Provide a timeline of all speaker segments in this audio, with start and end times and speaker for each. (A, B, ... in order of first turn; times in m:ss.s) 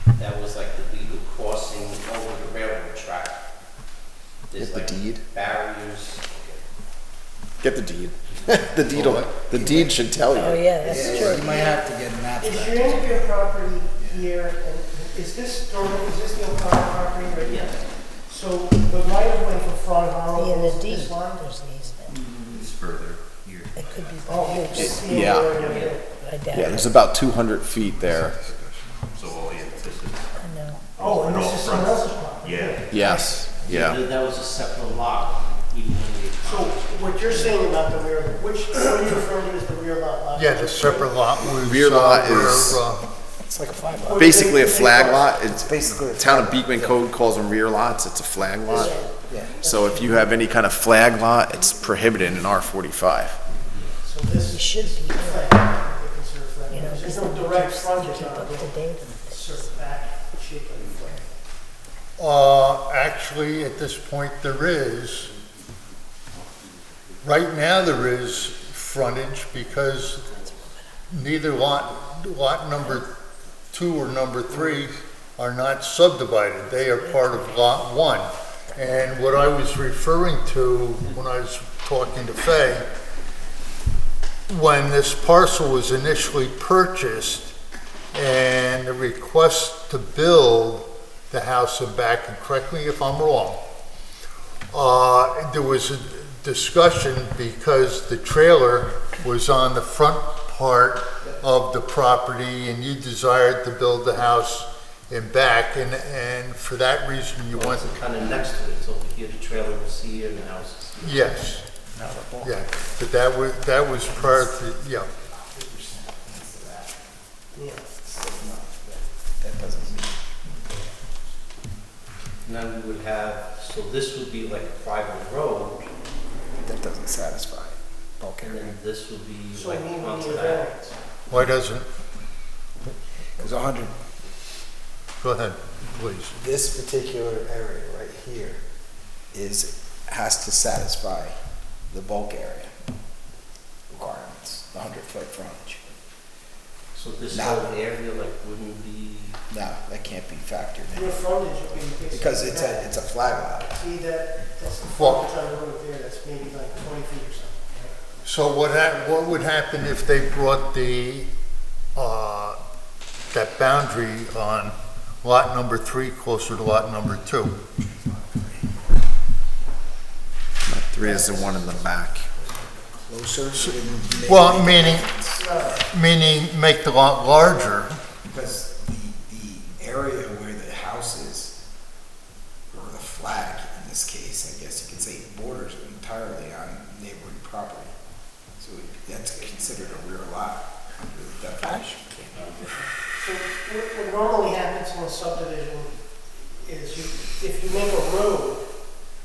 0:00.1-0:03.4 A
0:04.5-0:06.6 A
0:04.6-0:05.2 B
0:07.6-0:11.5 B
0:08.9-0:09.9 C
0:09.5-0:09.9 D
0:10.3-0:11.7 E
0:10.8-0:13.3 D
0:11.1-0:11.8 F
0:12.4-0:21.5 F
0:17.4-0:17.8 A
0:20.3-0:22.2 E
0:22.1-0:22.7 A
0:22.1-0:26.0 G
0:23.7-0:25.1 E
0:24.2-0:26.6 F
0:24.7-0:25.5 B
0:25.5-0:26.0 A
0:26.2-0:26.9 E
0:26.5-0:28.3 B
0:27.8-0:29.6 C
0:29.1-0:30.3 G
0:30.3-0:30.9 E
0:31.0-0:33.5 F
0:31.0-0:33.1 G
0:32.9-0:34.0 B
0:33.6-0:37.7 A
0:36.4-0:41.5 F
0:40.3-0:43.1 C
0:41.6-0:42.8 B
0:43.4-0:46.9 D
0:44.0-0:45.3 F
0:44.2-0:48.9 B
0:48.6-0:50.4 F
0:48.8-0:50.1 E
0:49.3-0:49.6 D
0:49.6-0:53.4 B
0:54.0-1:01.3 F
0:54.5-0:55.5 E
0:56.7-0:59.8 E
1:02.2-1:05.3 C
1:07.2-1:10.4 C
1:10.2-1:10.8 E
1:11.1-1:13.1 C
1:13.7-1:22.9 C
1:16.8-1:17.6 E
1:24.5-1:27.5 C
1:28.1-1:33.6 C
1:34.7-1:47.9 C
1:47.5-1:51.5 A
1:51.0-1:51.6 C
1:51.9-1:52.8 D
1:52.4-1:55.1 C
1:55.1-1:57.1 D
1:57.5-1:57.9 F
1:58.0-2:00.3 D
2:02.4-2:05.9 A
2:06.6-2:08.8 D
2:08.4-2:10.7 A
2:09.5-2:11.0 F
2:11.3-2:11.8 C
2:13.4-2:13.9 D
2:15.2-2:16.4 C
2:16.3-2:18.6 D
2:19.3-2:21.4 D
2:21.9-2:22.7 D
2:23.9-2:25.9 D
2:26.9-2:29.4 A
2:27.3-2:27.7 D
2:29.5-2:31.2 D
2:30.9-2:32.9 F
2:32.1-2:33.8 D
2:33.7-2:37.9 F
2:34.9-2:35.3 C
2:38.2-2:41.3 C
2:41.9-2:42.6 C
2:43.3-2:47.6 C
2:47.9-2:48.6 D
2:50.6-2:52.3 B
2:51.0-2:52.9 F
2:53.0-2:55.6 D
2:54.2-2:55.1 C
2:55.3-2:55.8 F
2:55.8-2:57.9 C
2:58.2-3:01.5 D
3:02.7-3:07.9 D
3:08.6-3:12.7 D
3:12.4-3:12.6 A
3:13.2-3:18.7 F